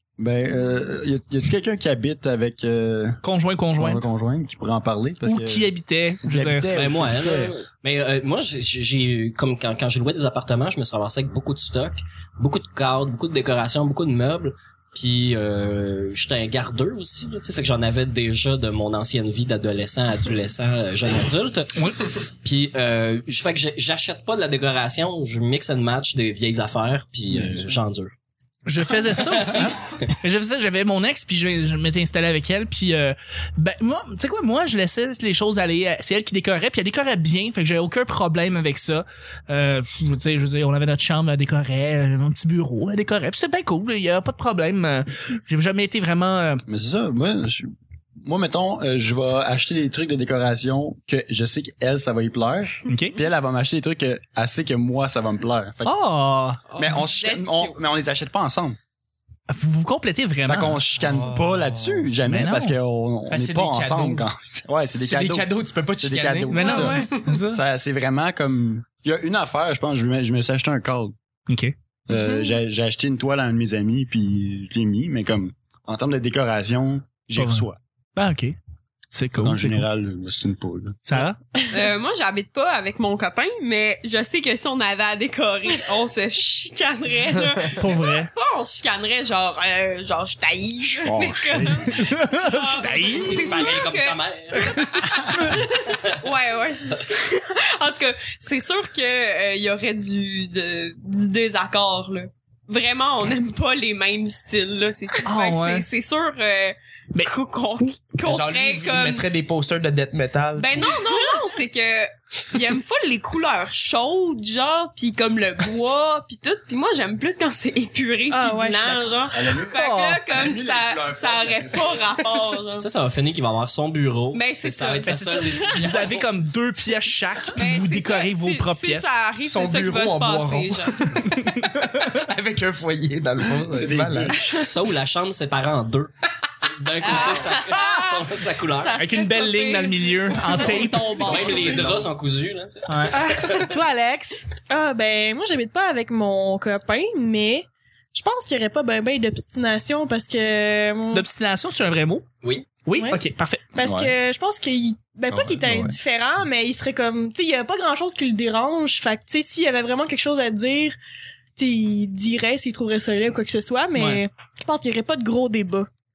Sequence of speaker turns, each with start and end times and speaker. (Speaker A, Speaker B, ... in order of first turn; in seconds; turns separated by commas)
Speaker A: 0.2-3.2, Speaker B: 3.2-4.1, Speaker A: 3.8-5.7, Speaker B: 5.2-6.7, Speaker A: 6.2-7.5, Speaker C: 6.7-28.1, Speaker B: 28.6-46.6, Speaker C: 29.2-29.7, Speaker A: 46.7-56.0, Speaker B: 52.9-53.2, Speaker B: 55.8-56.6, Speaker D: 56.7-57.8, Speaker A: 56.8-58.8, Speaker B: 59.5-60.8, Speaker A: 60.5-65.5, Speaker E: 61.0-62.1, Speaker B: 62.2-62.8, Speaker E: 63.3-64.2, Speaker E: 65.0-67.4, Speaker A: 66.0-71.1, Speaker B: 66.5-67.6, Speaker B: 71.5-71.7, Speaker A: 72.1-77.8, Speaker F: 72.1-72.6, Speaker B: 77.3-77.6, Speaker B: 78.2-78.5, Speaker B: 79.1-79.8, Speaker A: 79.4-81.0, Speaker B: 81.0-81.4, Speaker D: 81.7-94.2, Speaker B: 87.7-88.3, Speaker A: 90.9-92.0, Speaker B: 91.8-93.6, Speaker C: 93.1-95.2, Speaker B: 94.7-95.2, Speaker D: 95.2-109.3, Speaker B: 105.2-105.8, Speaker E: 108.2-110.7, Speaker D: 110.6-122.8, Speaker F: 110.8-111.2, Speaker F: 118.3-119.1, Speaker A: 119.3-122.2, Speaker B: 119.7-120.2, Speaker C: 122.8-126.3, Speaker D: 124.3-125.7, Speaker B: 125.0-129.1, Speaker D: 127.5-130.9, Speaker E: 129.4-134.4, Speaker A: 133.7-134.6, Speaker C: 134.6-139.0, Speaker D: 137.0-142.0, Speaker B: 138.9-141.5, Speaker C: 141.2-143.7, Speaker B: 142.9-144.5, Speaker F: 144.7-151.3, Speaker B: 151.1-152.3, Speaker B: 152.8-153.7, Speaker F: 153.7-160.9, Speaker A: 153.8-154.1, Speaker A: 155.3-156.0, Speaker F: 161.6-165.9, Speaker B: 163.9-164.2